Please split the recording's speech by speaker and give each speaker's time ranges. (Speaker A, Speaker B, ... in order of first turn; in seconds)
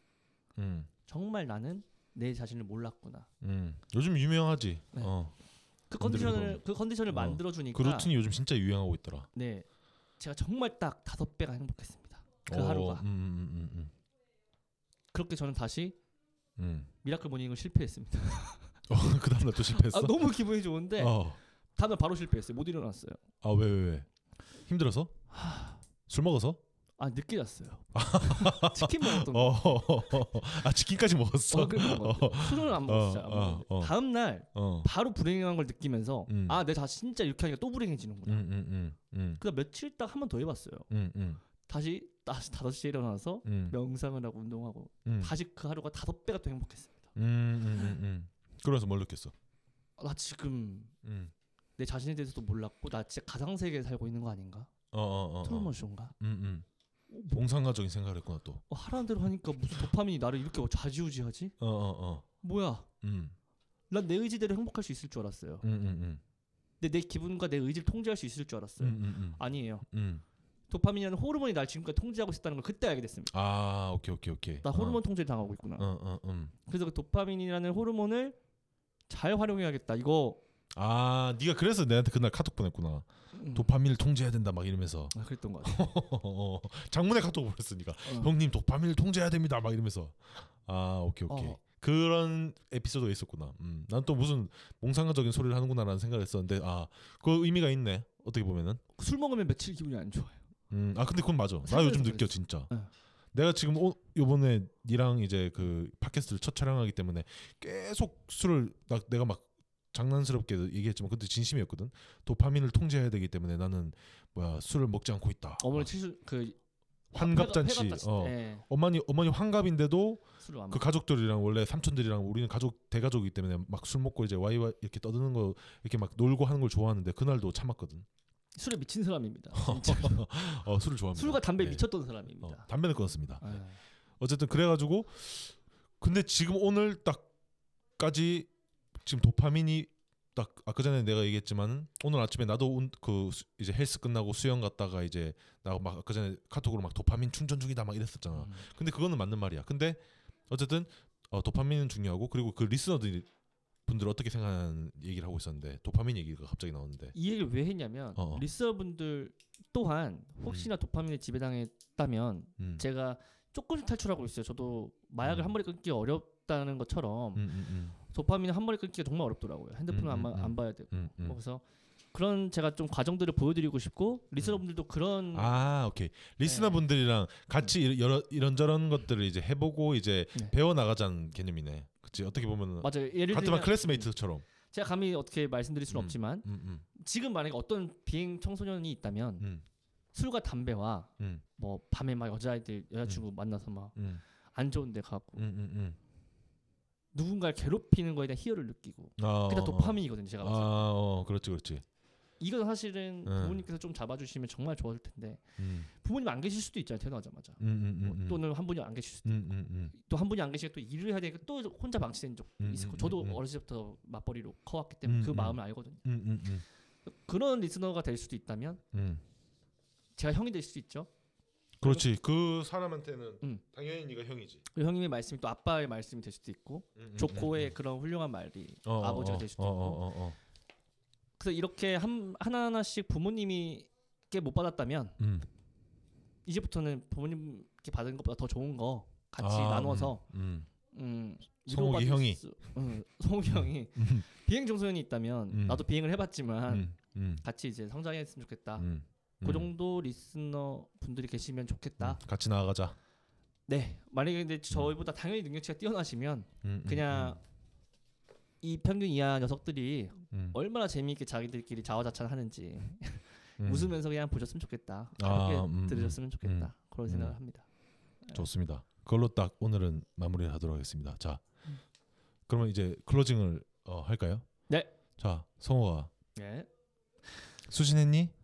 Speaker A: 0.6-0.9, 3.4-5.3, 6.0-9.3, 12.5-13.9, 16.6-16.9, 18.9-20.2, 21.0-21.4, 23.4-24.1, 24.6-25.1, 26.1-26.6, 27.9-34.0, 34.5-34.9, 36.3-36.6, 38.2-39.4, 40.9-41.4, 43.4-43.8, 45.0-45.3, 47.1-49.3, 51.0-51.3, 54.9-56.6, 57.2-58.6, 61.6-62.2, 63.0-63.3, 65.6-66.2, 68.8-70.2, 73.3-75.0, 75.8-76.5, 80.7-98.8, 100.7-102.7, 103.3-115.9, 117.1-128.1, 129.5-131.9, 132.4-133.6, 134.2-137.3, 138.0-138.5, 139.0-153.3, 153.8-157.1, 158.2-158.4, 162.6-162.8, 165.2-165.5, 167.3-168.0, 169.9-171.4, 174.4-174.6, 175.3-184.4, 185.9-186.8, 189.4-189.6, 193.9-194.2, 195.4-196.0, 199.2-201.8, 203.2-203.6, 205.6-205.9, 207.6-208.4, 209.2-209.9, 212.6-213.4, 215.0-216.6, 218.9-219.2, 221.8-224.6, 227.0-227.7, 228.8-230.4, 235.2-235.4, 239.4-240.7, 241.7-242.4, 243.5-244.2, 245.5-245.8, 246.7-247.4, 248.8-249.7, 252.0-252.9, 256.6-257.4, 263.6-263.9, 265.2-267.4, 268.3-271.4, 272.5-274.5, 275.2-276.1, 277.7-278.3
Speaker B: 1.1-3.3, 5.9-8.1, 9.3-9.7, 10.2-13.0, 15.1-16.0, 17.0-18.8, 19.5-21.2, 21.8-23.2, 25.3-25.8, 27.0-30.4, 31.5-38.5, 39.4-40.9, 41.6-47.1, 50.0-50.9, 51.8-54.7, 55.4-56.1, 58.7-61.5, 62.4-62.9, 63.9-65.6, 66.8-69.8, 70.7-73.3, 74.6-75.9, 76.7-78.4, 79.1-80.4, 83.3-83.7, 85.1-85.8, 88.0-88.3, 91.3-91.6, 99.0-100.4, 101.6-102.9, 115.6-116.6, 117.1-118.6, 120.4-120.9, 128.6-130.3, 131.1-132.7, 133.4-133.8, 148.3-148.7, 157.1-167.5, 168.0-175.6, 176.4-176.8, 182.8-184.1, 184.7-189.5, 190.1-193.9, 194.5-195.4, 197.1-200.9, 202.4-216.0, 217.1-218.8, 220.2-221.1, 224.7-230.0, 231.4-235.2, 236.4-240.2, 240.9-246.9, 247.4-248.9, 249.4-252.2, 253.7-257.4, 258.6-267.6, 276.4-276.7